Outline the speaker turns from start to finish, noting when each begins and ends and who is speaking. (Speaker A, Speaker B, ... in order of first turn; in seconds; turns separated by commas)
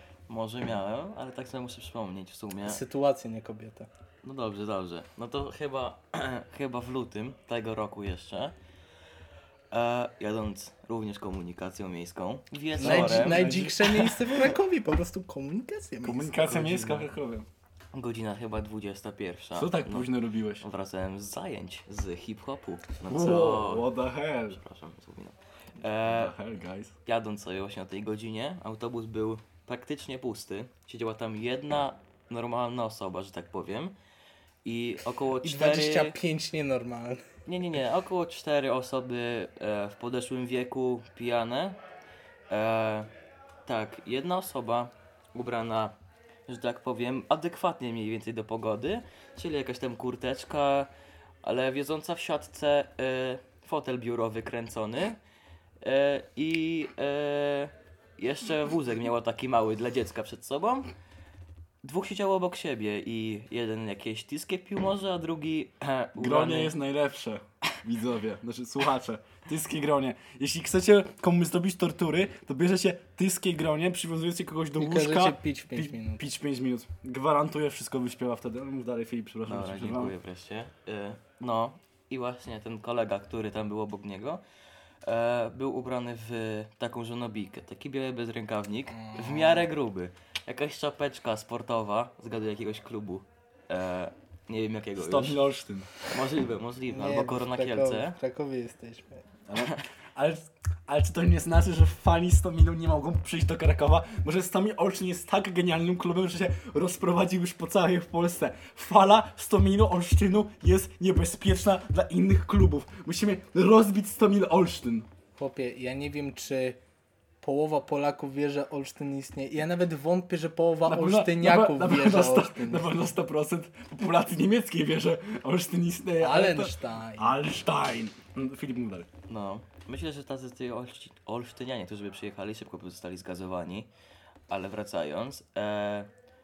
Speaker A: 0.3-2.8, Speaker B: 2.6-3.9, Speaker A: 4.2-8.5, Speaker A: 9.7-13.5, Speaker C: 12.8-14.5, Speaker B: 12.8-17.1, Speaker C: 16.0-17.5, Speaker A: 17.9-20.1, Speaker C: 19.5-20.6, Speaker A: 20.6-23.9, Speaker C: 23.1-24.6, Speaker A: 24.5-26.3, Speaker C: 26.0-26.9, Speaker A: 27.1-33.9, Speaker A: 34.6-36.1, Speaker B: 35.4-37.2, Speaker A: 37.5-41.8, Speaker A: 42.5-43.1, Speaker A: 43.6-45.9, Speaker A: 46.5-50.9, Speaker A: 51.4-55.2, Speaker A: 55.8-60.9, Speaker A: 61.8-66.7, Speaker C: 66.2-80.1, Speaker B: 74.8-76.2, Speaker A: 79.5-84.4, Speaker A: 85.0-95.4, Speaker B: 88.9-89.7, Speaker C: 95.0-95.9, Speaker A: 96.0-98.1, Speaker B: 96.9-99.2, Speaker C: 99.5-115.1, Speaker B: 115.4-116.8, Speaker B: 117.4-122.8, Speaker C: 120.9-129.1, Speaker B: 126.2-127.4, Speaker A: 129.3-133.9, Speaker A: 134.5-136.1